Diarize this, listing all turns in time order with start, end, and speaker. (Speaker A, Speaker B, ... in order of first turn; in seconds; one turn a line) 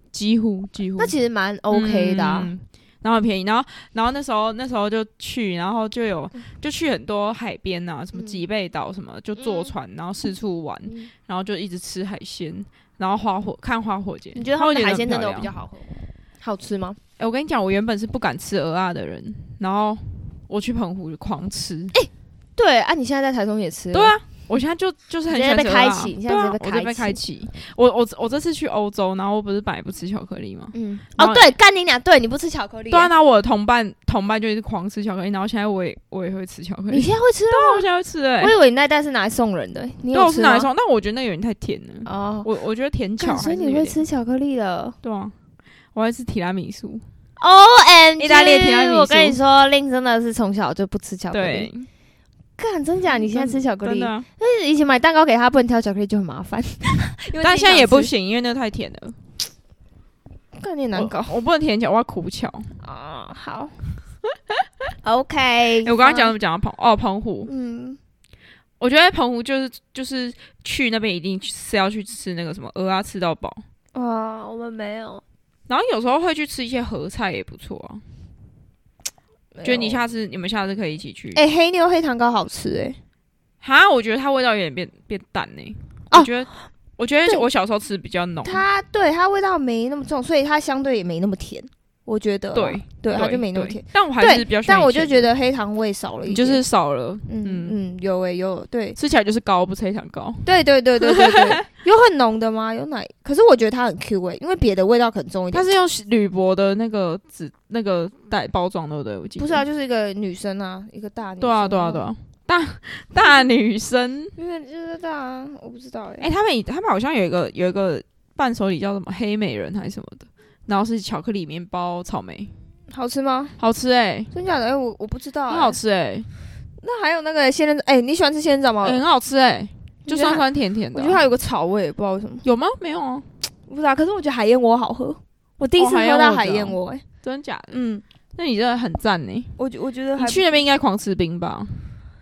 Speaker A: 0.1-1.1
Speaker B: 1.0-2.5
Speaker A: 1.7-15.5
Speaker B: 8.1-8.4
Speaker B: 9.4-9.7
Speaker B: 10.8-11.1
Speaker B: 14.3-17.0
Speaker A: 17.2-21.9
Speaker B: 21.9-24.1
Speaker A: 23.9-31.5
Speaker B: 25.3-27.2
Speaker B: 30.7-33.1
Speaker A: 32.9-38.5
Speaker B: 36.9-37.9
Speaker B: 38.4-40.7
Speaker A: 40.1-44.0
Speaker B: 42.0-42.5
Speaker B: 43.2-45.0
Speaker A: 45.0-45.3
Speaker A: 45.9-47.0
Speaker B: 47.4-51.7
Speaker A: 48.2-49.4
Speaker A: 51.3-51.9
Speaker B: 52.6-58.1
Speaker A: 53.3-54.2
Speaker A: 57.4-59.2
Speaker B: 60.5-61.4
Speaker A: 60.9-62.8
Speaker B: 62.8-63.8
Speaker B: 65.0-66.3
Speaker A: 65.8-67.5
Speaker B: 67.5-68.0
Speaker A: 68.8-73.6
Speaker B: 73.9-75.2
Speaker A: 75.7-78.0
Speaker B: 79.5-80.0
Speaker A: 79.6-81.4
Speaker B: 81.3-83.0
Speaker A: 83.6-88.6
Speaker B: 88.4-96.6
Speaker A: 92.5-95.3
Speaker A: 96.2-97.8
Speaker B: 97.3-99.0
Speaker A: 99.0-100.5
Speaker B: 100.4-105.7
Speaker A: 101.0-101.4
Speaker A: 105.5-109.6
Speaker B: 109.4-112.1
Speaker A: 111.4-114.3
Speaker B: 114.3-116.3
Speaker A: 116.2-122.5
Speaker B: 122.9-123.6
Speaker A: 123.6-124.3
Speaker B: 124.3-125.8
Speaker A: 125.5-126.3
Speaker B: 126.8-129.0
Speaker A: 128.8-131.2
Speaker B: 130.1-132.4
Speaker A: 132.4-133.3
Speaker B: 133.7-137.0
Speaker A: 135.8-137.8
Speaker B: 137.7-138.0
Speaker A: 138.3-139.5
Speaker B: 139.6-140.6
Speaker A: 140.2-141.9